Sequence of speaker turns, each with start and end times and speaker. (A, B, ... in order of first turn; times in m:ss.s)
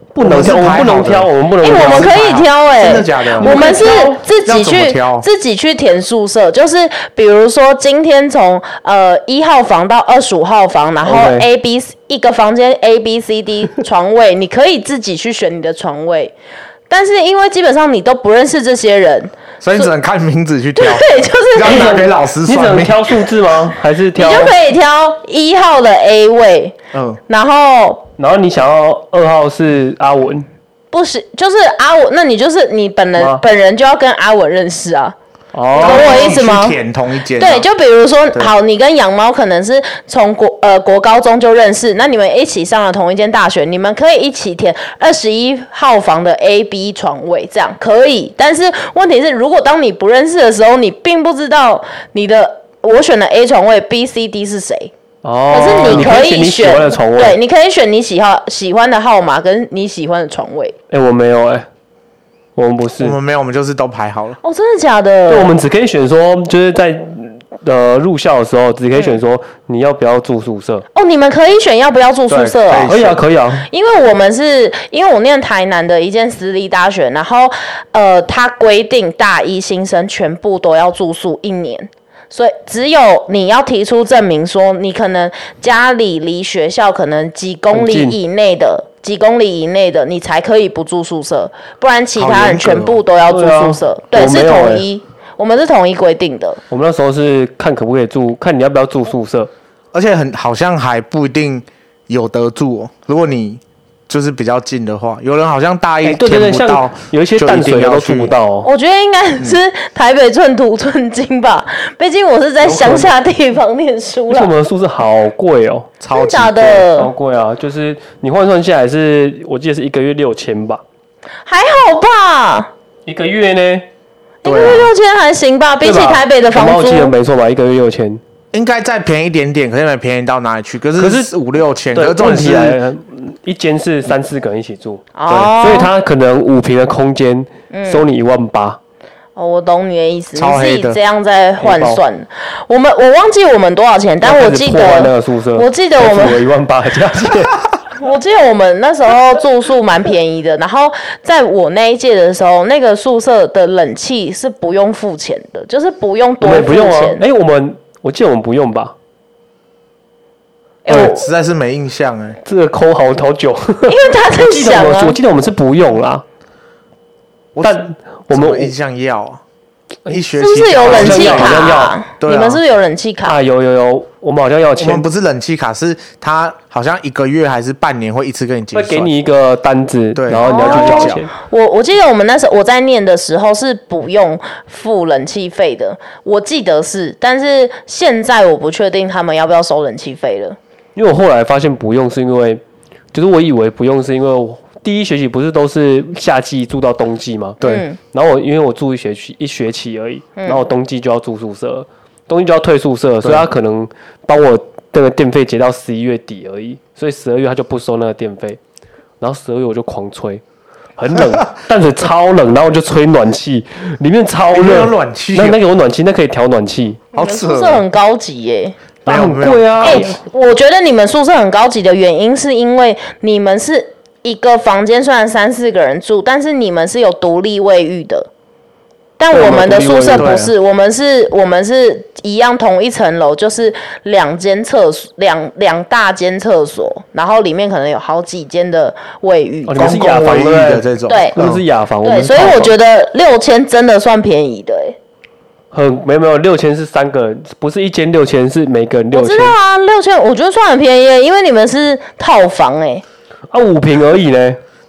0:00.1-0:02.1 A
0:00.2-0:03.8 B
0:01.6-0:16.3 C
0:03.4-0:04.2 A
0:04.4-0:05.3 B
0:11.1-0:11.5 A
0:16.9-0:19.9 C
0:19.6-0:23.1 B
0:20.8-0:22.0 C
0:21.6-0:24.6 A
0:24.2-0:26.8 C
0:26.9-0:27.2 B
0:27.3-0:28.0 C
0:28.2-0:30.5 A
0:30.9-0:35.2 C
0:33.2-0:33.4 A
0:35.5-0:36.3 A
0:35.7-0:36.8 C
0:35.8-0:37.7 B
0:37.4-0:54.9 C
0:55.2-0:57.4 A
0:55.5-1:00.8 C
0:55.8-0:56.2 B
1:00.9-1:01.7 A
1:02.6-1:03.2 A
1:03.0-1:04.4 B
1:04.4-1:05.6 C
1:05.3-1:10.9 A
1:11.0-1:13.0 C
1:12.3-1:13.2 B
1:12.8-1:13.7 A
1:13.7-1:36.6 C
1:27.7-1:28.2 A
1:32.2-1:33.0 B
1:33.3-1:34.9 A
1:36.7-1:39.5 A
1:39.9-1:48.3 B
1:46.0-1:48.7 A
1:48.6-1:54.5 C
1:52.6-1:53.1 A
1:54.3-1:55.9 A
1:56.0-1:56.8 B
1:56.1-1:57.1 C
1:56.9-2:00.8 A
2:01.5-2:02.7 C
2:03.1-2:03.9 A
2:04.4-2:07.1 C
2:04.4-2:04.9 B
2:05.8-2:08.2 A
2:08.5-2:12.8 B
2:11.0-2:11.3 A
2:11.9-2:18.8 A
2:15.2-2:15.9 C
2:17.7-2:18.1 C
2:19.4-2:26.4 C
2:20.4-2:21.0 B
2:21.6-2:22.0 A
2:24.2-2:27.6 A
2:28.0-2:37.2 C
2:36.4-2:38.9 A
2:40.8-2:41.3 C
2:40.9-2:42.4 B
2:42.4-2:46.2 A
2:43.9-2:45.2 C
2:47.5-2:49.4 B
2:47.6-2:48.7 A
2:50.1-2:52.6 B
2:50.4-2:53.4 C
2:50.8-2:52.0 A
2:53.2-2:55.1 A
2:54.8-2:59.1 B
2:58.7-3:01.3 A
3:00.2-3:01.2 B
3:00.4-3:10.6 C
3:11.0-3:12.6 A
3:13.1-3:17.6 A
3:17.6-3:18.0 C
3:18.1-3:28.6 A
3:20.4-3:20.6 C
3:29.2-3:30.4 A
3:31.0-3:37.0 A
3:34.5-3:35.6 B
3:37.1-3:37.8 B
3:37.1-3:38.8 C
3:39.0-3:40.1 B
3:39.1-3:40.2 A
3:39.8-3:48.3 C
3:49.2-3:59.9 C
3:49.3-3:50.3 A
3:50.1-3:50.5 B
3:59.7-4:02.7 A
3:59.8-4:01.6 B
4:01.1-4:01.4 C
4:02.0-4:05.0 C
4:05.7-4:09.6 A
4:09.1-4:13.0 C
4:13.5-4:14.6 A